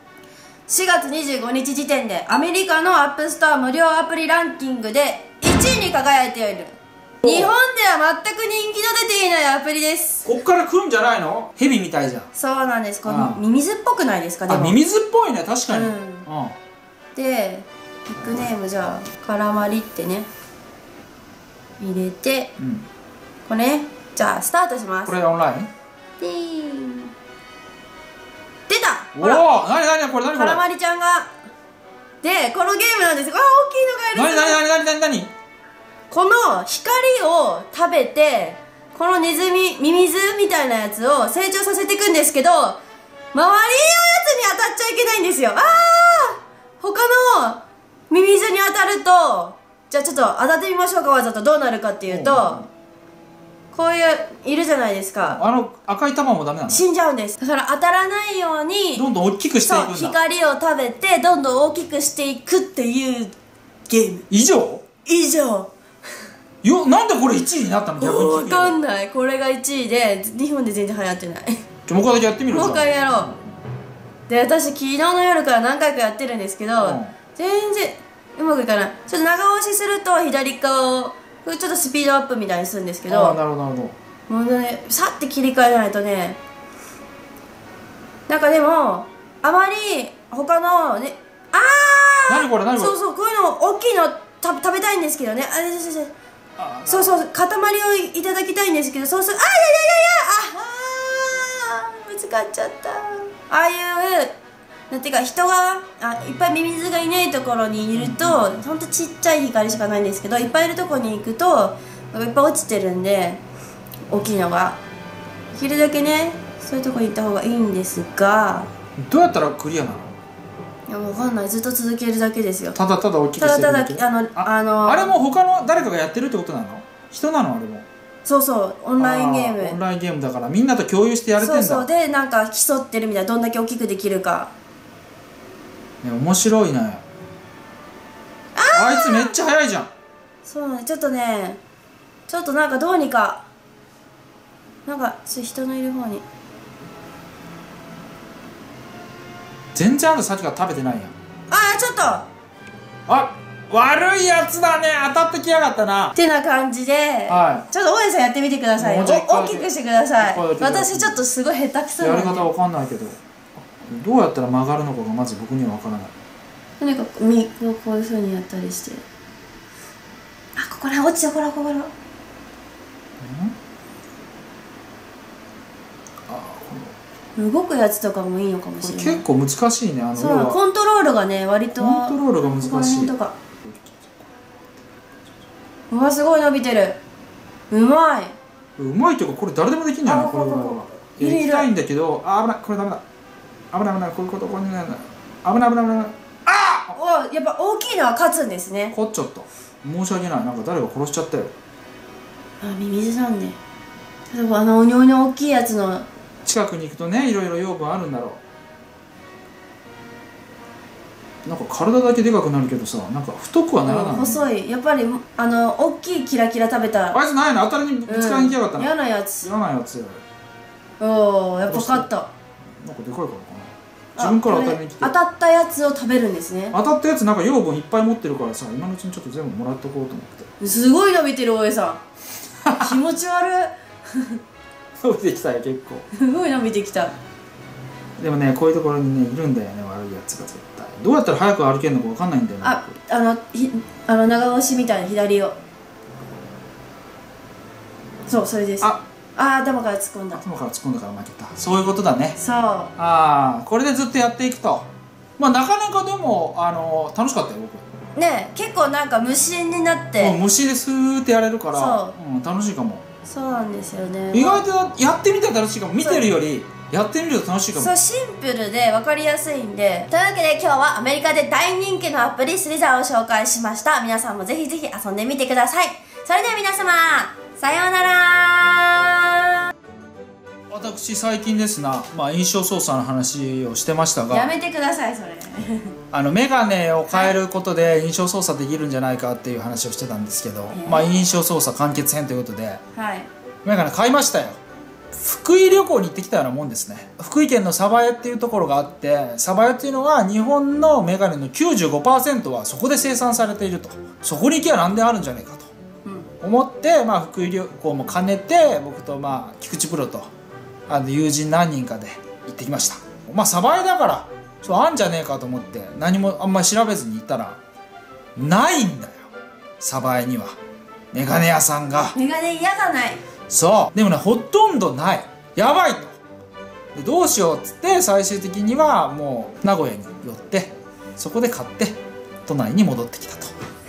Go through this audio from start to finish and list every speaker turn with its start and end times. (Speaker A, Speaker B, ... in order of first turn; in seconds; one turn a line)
Speaker A: 0.7-10.3
Speaker B: 7.2-7.5
Speaker B: 10.2-12.3
Speaker A: 12.3-14.8
Speaker B: 13.1-13.4
Speaker B: 14.5-16.6
Speaker A: 15.7-16.2
Speaker A: 17.1-20.3
Speaker A: 21.8-22.5
Speaker B: 22.6-22.9
Speaker A: 23.4-25.1
Speaker B: 25.1-25.7
Speaker A: 26.2-27.1
Speaker A: 28.7-29.4
Speaker B: 29.1-30.6
Speaker A: 30.3-31.3
Speaker A: 32.2-34.6
Speaker B: 34.1-35.3
Speaker A: 36.1-42.8
Speaker A: 43.3-52.6
Speaker B: 52.1-52.7
Speaker A: 53.7-55.4
Speaker B: 55.2-56.8
Speaker A: 56.7-59.0
Speaker B: 58.9-60.2
Speaker A: 59.6-63.3
Speaker A: 63.9-64.2
Speaker B: 64.3-64.8
Speaker A: 65.0-65.7
Speaker B: 66.6-68.8
Speaker A: 68.0-71.6
Speaker B: 71.9-73.5
Speaker A: 72.5-73.3
Speaker A: 74.3-83.4
Speaker B: 76.8-77.1
Speaker B: 83.1-84.0
Speaker A: 84.3-86.4
Speaker A: 88.3-96.1
Speaker B: 92.3-92.9
Speaker B: 96.6-97.2
Speaker A: 96.8-104.3
Speaker A: 104.9-113.4
Speaker B: 107.9-108.6
Speaker A: 114.1-114.8
Speaker A: 115.5-118.7
Speaker B: 119.0-120.1
Speaker A: 120.9-122.8
Speaker B: 122.7-127.8
Speaker A: 123.4-125.1
Speaker A: 128.2-129.8
Speaker B: 129.0-131.9
Speaker A: 131.4-134.5
Speaker B: 136.0-137.0
Speaker A: 138.5-139.3
Speaker B: 138.7-139.9
Speaker A: 140.4-141.6
Speaker A: 142.3-143.4
Speaker A: 144.8-146.2
Speaker B: 149.7-151.1
Speaker A: 151.5-152.3
Speaker B: 153.1-156.1
Speaker A: 156.1-162.4
Speaker B: 157.3-157.7
Speaker B: 158.8-161.2
Speaker B: 162.0-166.1
Speaker A: 166.8-169.0
Speaker A: 170.6-171.9
Speaker B: 173.2-173.5
Speaker B: 176.3-176.9
Speaker A: 177.3-179.2
Speaker B: 178.8-180.6
Speaker A: 180.2-183.3
Speaker B: 181.7-183.1
Speaker B: 183.6-184.3
Speaker A: 185.9-187.0
Speaker A: 187.7-188.3
Speaker B: 188.8-193.0
Speaker A: 190.0-191.7
Speaker B: 193.7-196.9
Speaker A: 196.9-198.9
Speaker B: 198.9-201.5
Speaker A: 202.6-203.6
Speaker A: 204.3-206.1
Speaker B: 206.4-208.4
Speaker B: 211.4-214.4
Speaker A: 213.8-217.2
Speaker B: 217.1-220.2
Speaker A: 218.1-219.5
Speaker A: 221.0-222.3
Speaker B: 221.6-222.1
Speaker B: 222.8-225.1
Speaker A: 224.2-226.7
Speaker B: 226.7-230.5
Speaker A: 230.6-232.0
Speaker B: 232.6-232.9
Speaker A: 232.7-234.4
Speaker B: 235.0-236.1
Speaker A: 236.1-237.2
Speaker B: 238.2-243.0
Speaker A: 242.6-245.6
Speaker A: 248.3-250.4
Speaker B: 250.3-252.4
Speaker A: 252.4-252.9
Speaker B: 252.9-257.9
Speaker A: 258.1-260.4
Speaker B: 260.2-263.0
Speaker A: 261.7-262.1
Speaker A: 263.2-264.6
Speaker B: 264.3-267.9
Speaker A: 266.0-266.3
Speaker A: 267.7-279.4
Speaker B: 280.7-284.5
Speaker A: 284.3-285.9
Speaker B: 286.1-292.8
Speaker A: 287.1-287.4
Speaker A: 290.7-291.0
Speaker A: 292.9-293.3
Speaker B: 293.6-294.6
Speaker B: 295.1-305.7
Speaker B: 306.4-310.3
Speaker B: 310.9-317.6
Speaker B: 318.4-320.6
Speaker B: 321.1-322.1
Speaker A: 322.1-323.2
Speaker B: 323.5-326.1
Speaker B: 326.9-333.5